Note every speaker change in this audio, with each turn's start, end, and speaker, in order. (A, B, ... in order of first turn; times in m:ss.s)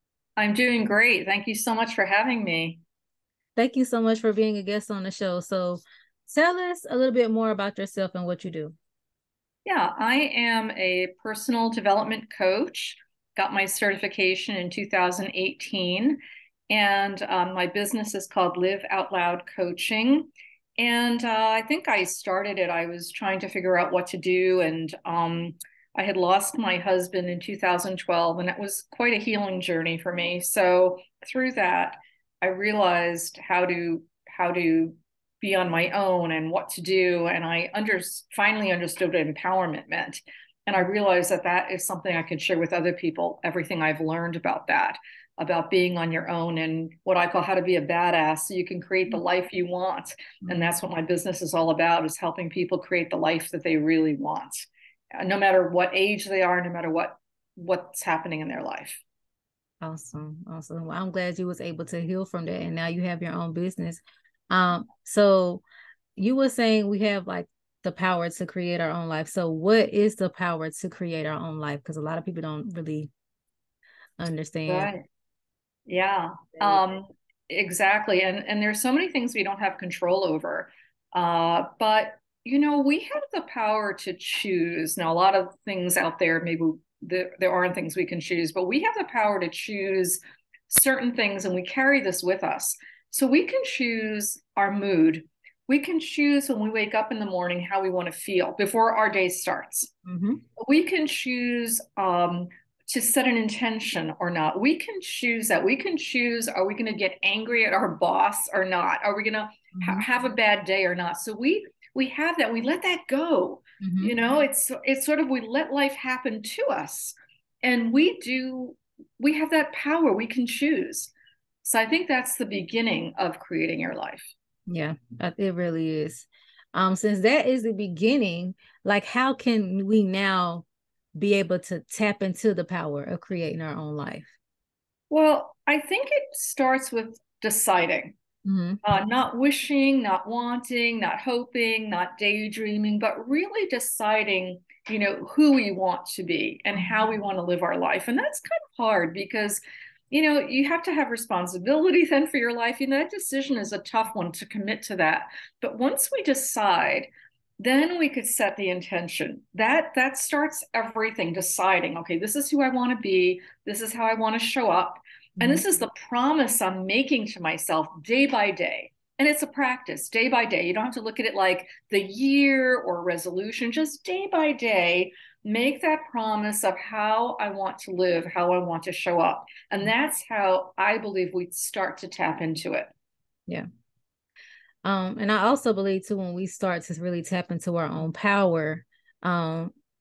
0:00.4-0:02.8 A
0:03.6-0:08.8 B
0:09.6-0:54.7 A
0:50.5-0:50.7 B
0:55.2-0:59.0 A
0:59.8-1:05.6 B
1:06.2-1:13.1 B
1:14.2-1:14.9 B
1:14.7-1:15.0 A
1:15.9-1:39.9 A
1:40.1-1:40.4 B
1:40.6-2:01.1 A
1:49.8-1:50.1 B
1:53.8-1:54.2 B
2:01.6-2:04.3 A
2:04.7-2:10.6 B
2:11.2-2:14.3 B
2:15.1-2:18.2 A
2:18.4-2:18.8 B
2:18.8-3:02.9 A
2:45.4-2:45.6 B
3:04.8-3:09.7 B